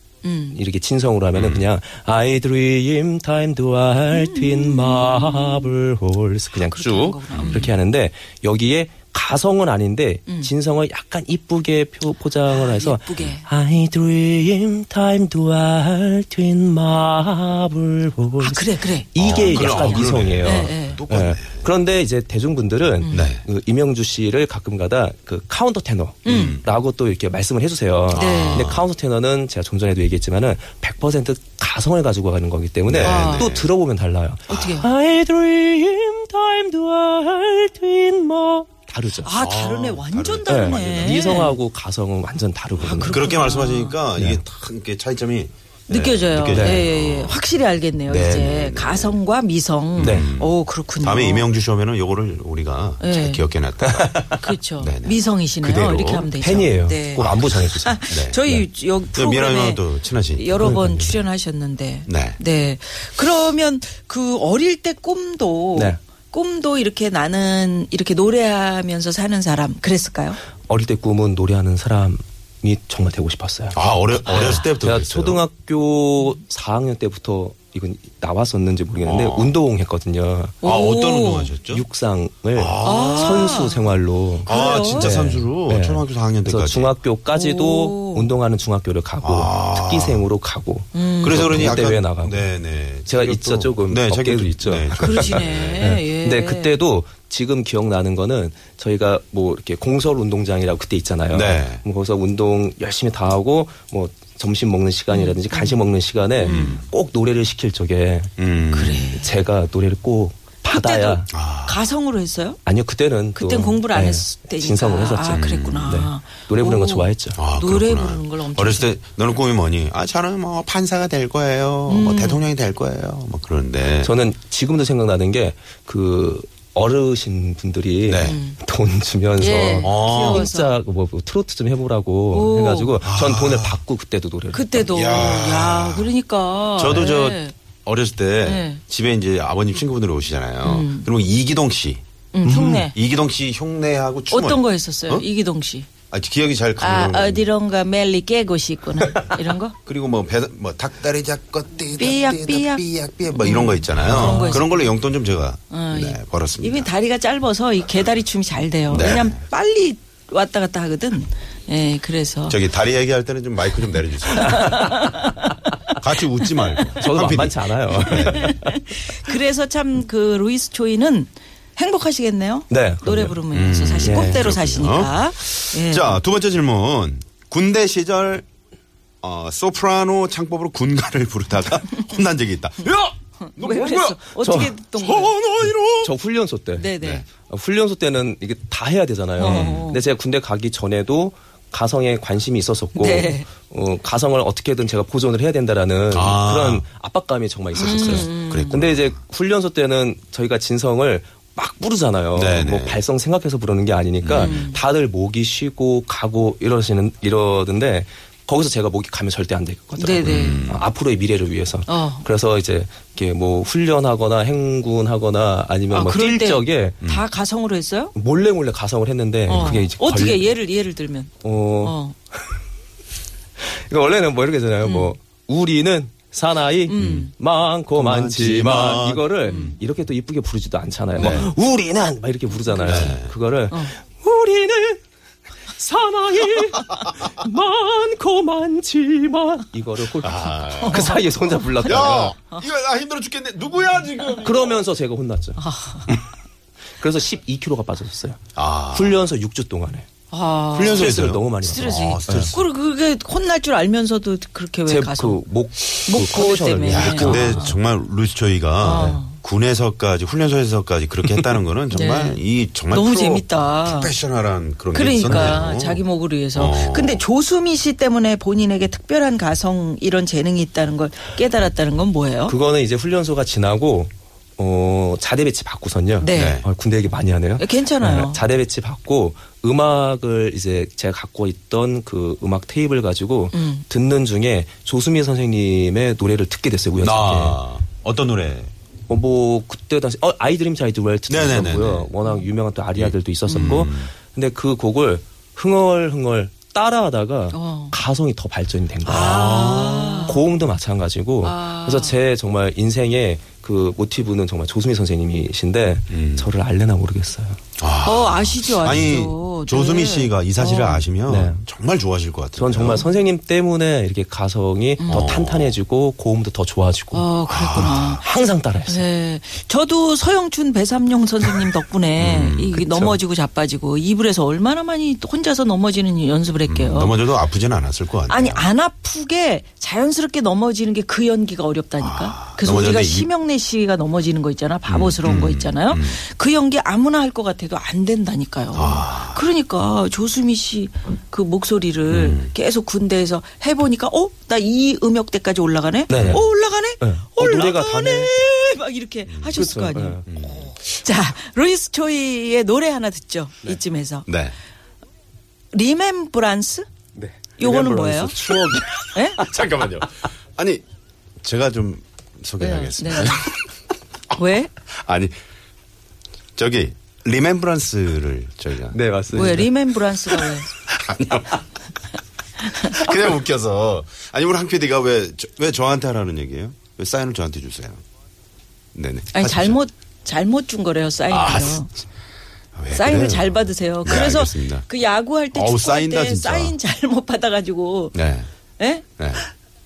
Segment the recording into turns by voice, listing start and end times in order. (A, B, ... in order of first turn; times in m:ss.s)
0:00.2-0:00.6 A
0:00.5-0:39.3 B
0:01.3-0:01.6 C
0:04.1-0:05.7 A
0:06.6-0:07.7 A
0:07.3-0:07.7 C
0:12.5-0:13.4 A
0:18.4-0:21.0 A
0:19.2-0:21.7 C
0:23.0-0:23.3 A
0:23.1-0:23.4 C
0:26.2-0:26.6 A
0:26.2-0:26.6 C
0:28.1-0:28.8 C
0:28.1-0:28.8 A
0:32.8-0:33.7 C
0:33.0-0:33.6 A
0:34.5-0:34.9 A
0:34.5-0:34.8 C
0:39.2-0:41.6 A
0:39.2-0:41.5 C
0:40.4-0:43.2 B
0:42.8-0:44.0 A
0:42.9-0:47.4 C
0:44.2-0:44.4 B
0:45.9-0:51.5 A
0:46.5-0:46.8 B
0:48.0-0:49.2 C
0:49.9-0:56.3 C
0:50.0-0:50.3 B
0:53.0-0:53.4 A
0:53.8-0:54.5 B
0:54.4-1:10.4 A
0:56.3-0:58.6 B
0:57.2-0:57.5 C
0:58.1-0:58.4 C
0:59.1-1:00.8 C
1:00.6-1:01.2 B
1:02.1-1:02.4 C
1:10.6-1:20.6 B
1:13.7-1:15.4 C
1:14.2-1:14.6 A
1:19.0-1:19.5 C
1:20.6-1:21.6 A
1:20.6-1:21.8 C
1:21.7-1:32.5 B
1:22.5-1:23.7 C
1:22.8-1:25.2 A
1:24.4-1:27.0 C
1:27.3-1:28.3 A
1:29.2-1:30.2 C
1:30.9-1:31.5 A
1:31.2-1:35.9 C
1:33.1-1:48.3 B
1:35.0-1:36.8 A
1:41.3-1:41.8 C
1:45.1-1:45.8 A
1:46.4-1:46.8 A
1:46.4-1:46.8 C
1:48.4-1:49.2 C
1:48.7-1:49.4 A
1:49.1-1:51.3 B
1:50.7-1:52.6 A
1:51.3-1:51.8 C
1:52.6-1:57.4 B
1:53.3-1:59.0 A
1:55.4-1:55.8 C
1:57.4-2:04.1 C
2:01.9-2:02.4 A
2:04.0-2:14.8 B
2:08.0-2:08.4 C
2:08.2-2:08.6 A
2:09.4-2:10.8 A
2:09.8-2:10.5 C
2:12.3-2:13.0 A
2:13.0-2:13.8 C
2:14.5-2:17.5 A
2:14.9-2:16.1 C
2:16.8-2:22.0 C
2:18.4-2:18.8 A
2:20.6-2:21.1 A
2:22.3-2:22.9 A
2:22.4-2:22.9 B
2:22.9-2:25.2 C
2:24.3-2:25.9 A
2:26.1-2:27.5 C
2:26.8-2:29.8 A
2:29.8-2:36.9 C
2:32.0-2:34.9 A
2:34.1-2:34.6 B
2:35.7-2:42.6 A
2:38.9-2:39.4 C
2:42.5-2:44.9 C
2:44.3-2:45.5 A
2:44.4-2:45.1 B
2:46.0-2:48.6 C
2:47.0-2:49.0 B
2:48.0-2:56.2 A
2:52.7-2:53.4 B
2:53.5-2:58.4 C
2:54.0-2:54.4 B
2:59.2-3:04.2 C
3:03.4-3:05.4 A
3:04.4-3:04.8 B
3:04.9-3:06.1 C
3:06.0-3:37.0 B
3:06.7-3:07.2 A
3:07.0-3:07.2 C
3:09.4-3:10.0 A
3:09.4-3:09.9 C
3:13.0-3:13.5 A
3:16.1-3:16.8 C
3:17.7-3:18.8 A
3:17.8-3:19.2 C
3:22.3-3:23.0 C
3:24.2-3:24.6 C
3:24.3-3:24.8 A
3:30.0-3:30.6 A
3:30.2-3:30.8 C
3:31.9-3:32.2 A
3:35.9-3:38.1 A
3:38.1-3:40.5 B
3:39.5-3:42.1 A
3:41.4-3:42.0 B
3:43.6-3:55.0 B
3:44.8-3:45.1 A
3:46.8-3:47.3 A
3:47.0-3:47.3 C
3:47.9-3:49.7 C
3:49.4-3:49.8 A
3:51.2-3:51.5 C
3:52.7-3:53.2 A
3:52.8-3:53.3 C
3:55.7-4:02.3 B
4:00.2-4:01.2 C
4:00.8-4:02.6 A
4:01.8-4:04.8 C
4:04.4-4:06.2 B
4:05.6-4:06.1 A
4:07.0-4:10.1 B
4:08.6-4:09.3 C
4:10.3-4:17.8 A
4:10.7-4:12.6 C
4:10.9-4:12.5 B
4:14.8-4:17.7 B
4:16.8-4:27.2 C
4:18.8-4:19.4 A
4:21.9-4:24.1 A
4:24.9-4:32.6 A
4:32.4-4:47.6 B
4:36.2-4:36.6 A
4:36.3-4:36.6 C
4:37.6-4:38.4 A
4:43.5-4:43.8 A
4:47.0-4:48.7 C
4:49.1-5:07.6 B
4:51.3-4:52.1 C
4:52.9-4:54.1 C
4:57.5-4:58.0 A
4:59.0-5:00.5 A
4:59.1-5:00.2 C
5:01.4-5:02.2 A
5:06.1-5:06.5 C
5:07.8-5:13.1 C
5:08.0-5:11.0 A
5:11.3-5:11.6 B
5:12.6-5:17.3 B
5:15.0-5:15.3 A
5:15.0-5:15.8 C
5:17.1-5:18.3 A
5:17.5-5:18.2 C
5:18.1-5:19.0 B
5:18.9-5:27.2 A
5:22.2-5:22.8 C
5:22.8-5:23.2 B
5:26.6-5:28.7 C
5:28.3-5:54.3 A
5:32.0-5:33.3 C
5:34.9-5:36.2 C
5:38.7-5:39.5 C
5:42.1-5:42.5 C
5:46.1-5:46.4 B
5:46.1-5:46.4 C
5:47.0-5:48.3 B
5:49.3-5:49.6 C
5:49.5-5:50.2 B
5:50.3-5:50.7 C
5:54.3-5:54.6 C
5:55.7-5:56.8 A
5:57.2-5:59.5 B
5:57.6-5:59.4 A
5:59.4-6:00.8 C
6:01.4-6:03.6 C
6:02.6-6:03.4 A
6:04.3-6:04.7 A
6:04.9-6:05.3 C
6:06.6-6:09.6 C
6:08.9-6:09.7 B
6:09.3-6:10.7 A
6:10.9-6:11.6 C
6:12.8-6:18.0 C
6:18.9-6:19.8 C
6:19.3-6:21.9 A
6:21.3-6:21.8 C
6:22.7-6:24.8 C
6:22.9-6:28.2 A
6:25.5-6:26.8 C
6:28.1-6:28.5 C
6:28.8-6:29.0 A
6:29.2-6:29.4 C